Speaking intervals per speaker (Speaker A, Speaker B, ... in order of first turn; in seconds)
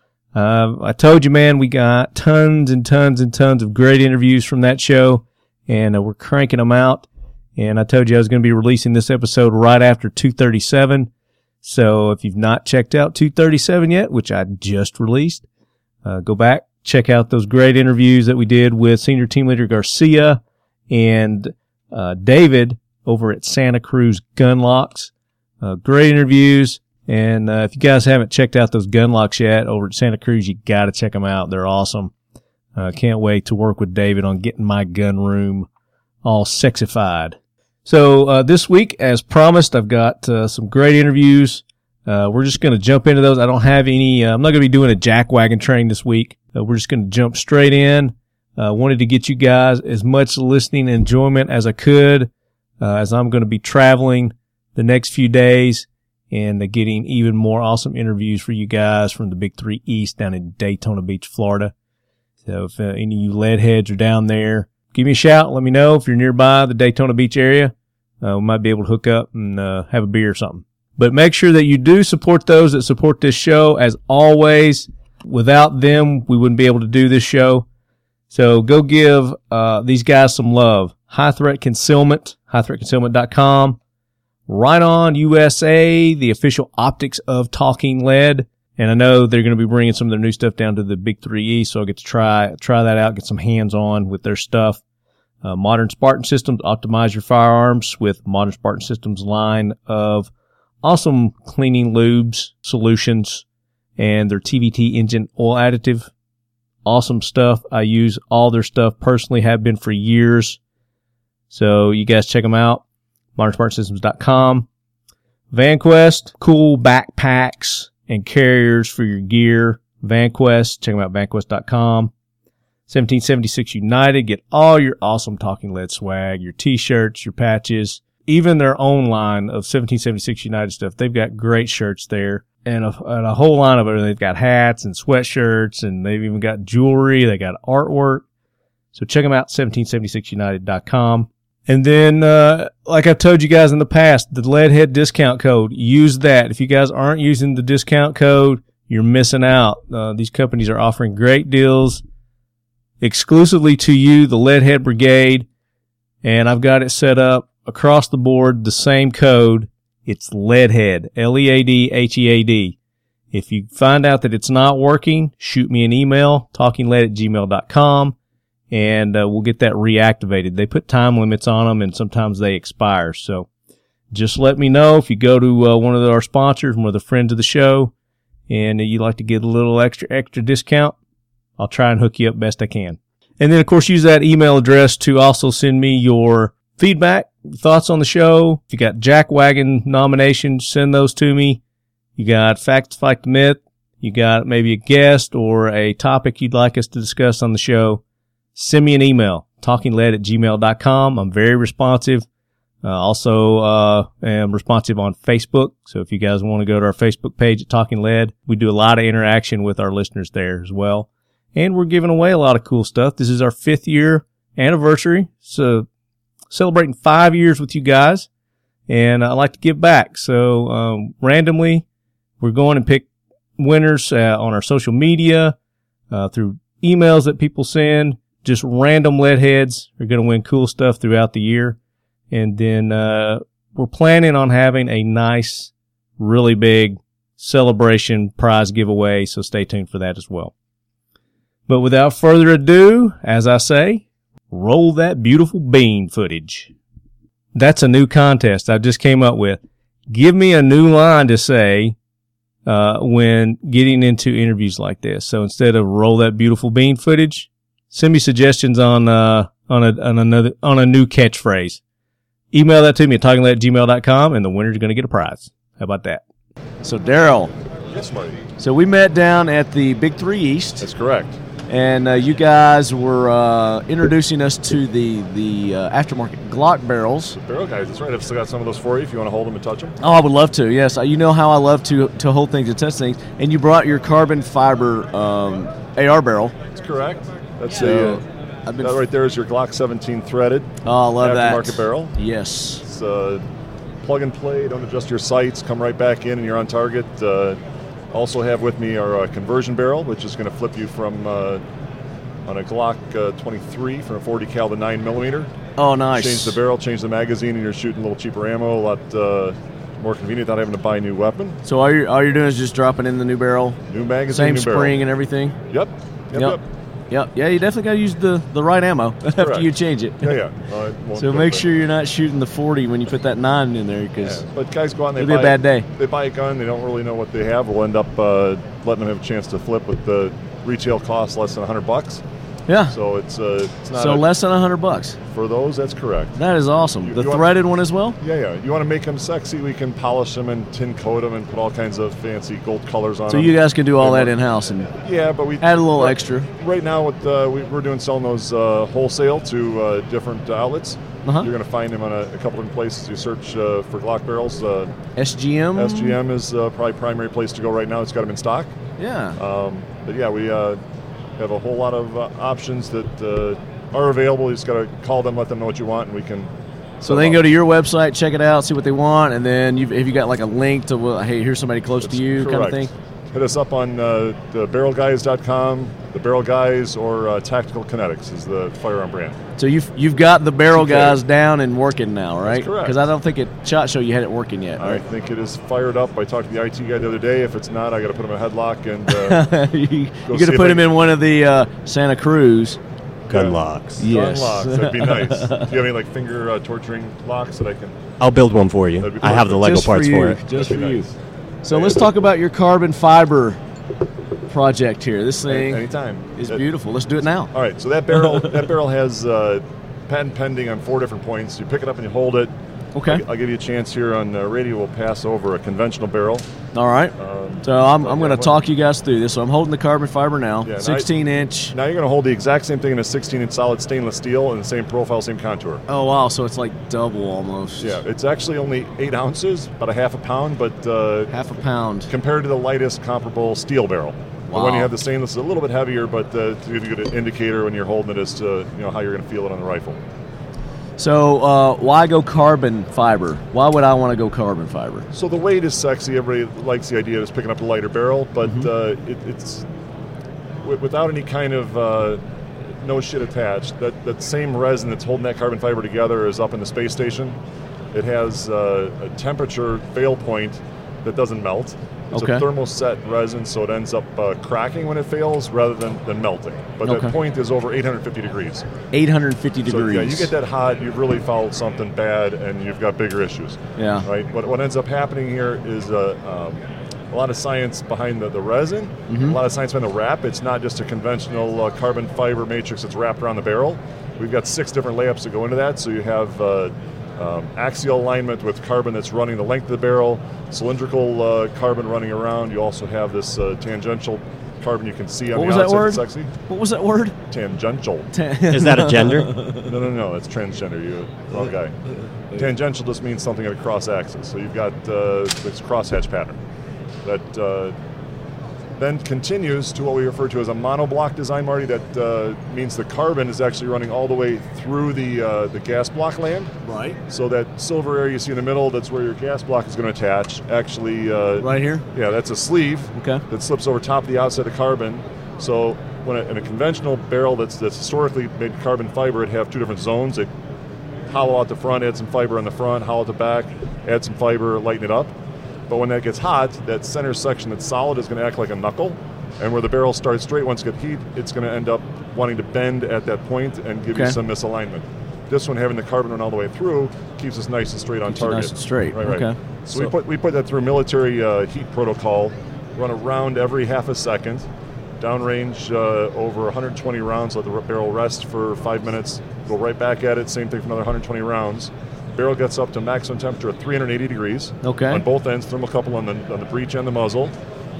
Speaker A: 0.3-11.1, 11.6-15.5, 16.0-25.1, 25.6-32.1, 32.8-35.7, 36.2-61.7, 62.5-77.7, 78.3-83.8, 84.5-94.8, 95.4-100.3, 100.8-103.4, 104.0-106.1, 106.8-110.6, 111.5-112.8, 113.4-114.7, 115.5-122.1, 122.9-138.2, 138.9-152.0, 153.0-155.5, 156.2-162.8, 163.3-168.2, 168.7-173.5, 174.1-177.9, 178.5-181.0, 181.6-191.6, 192.2-198.0, 198.6-202.3, 202.8-215.9, 216.5-218.3, 218.9-221.8, 222.4-223.1, 223.6-225.6, 226.1-231.8, 232.3-240.5, 241.7-246.7, 247.5-252.0, 252.7-261.8, 262.5-266.2
Speaker B: 266.8-267.5, 268.6-270.9, 271.7-277.4, 280.0-286.5, 287.8-289.0, 290.8-292.8, 305.8-306.6, 311.6-313.8, 314.3-315.6, 317.1-320.4, 321.1-324.4, 325.2-325.9, 332.7-332.9, 333.9-335.2, 336.4-338.2, 343.3-344.9, 345.6-346.5, 351.2-351.5, 355.1-356.2, 359.0-359.4, 367.0-372.9, 379.6-385.0, 389.1-392.8, 394.0-395.8, 399.6-401.1, 401.6-403.6, 404.5-405.8, 406.3-407.5, 412.9-413.2, 416.7-421.7, 425.9-428.0, 431.3-432.1, 434.5-434.9, 441.0-445.1, 462.1-462.4, 466.8-467.1, 468.9-470.3, 473.8-474.1, 479.1-479.4, 495.3-497.1, 498.1-499.7, 516.6-517.0, 521.4-521.9, 522.9-523.2, 543.9-544.2, 548.1-549.9, 564.6-565.0
Speaker C: 267.9-268.4, 270.8-271.4, 277.3-279.9, 286.8-288.2, 288.8-292.1, 292.8-293.4, 294.0-297.6, 298.1-301.6, 302.4-305.5, 306.1-311.6, 313.9-315.1, 315.7-316.6, 319.4-319.7, 320.2-321.7, 324.2-332.2, 332.9-334.3, 335.3-336.4, 337.0-337.5, 338.2-344.3, 345.0-354.9, 355.8-358.8, 359.4-360.8, 361.4-367.4, 372.0-379.4, 380.8-381.2, 382.4-383.0, 384.8-389.4, 390.3-390.9, 393.3-398.0, 399.0-401.1, 401.7-402.1, 405.5-406.6, 407.5-416.5, 417.2-418.6, 420.6-421.1, 421.7-425.8, 427.8-431.3, 432.1-440.0, 445.1-449.7, 450.6-452.2, 452.8-457.4, 457.9-468.6, 469.6-496.3, 497.3-498.1, 499.6-501.8, 502.4-506.4, 507.0-507.8, 508.8-516.5, 517.1-530.3, 531.1-535.1, 535.7-554.5, 555.0-567.4
Speaker D: 393.3-394.0, 398.2-400.4, 498.5-499.3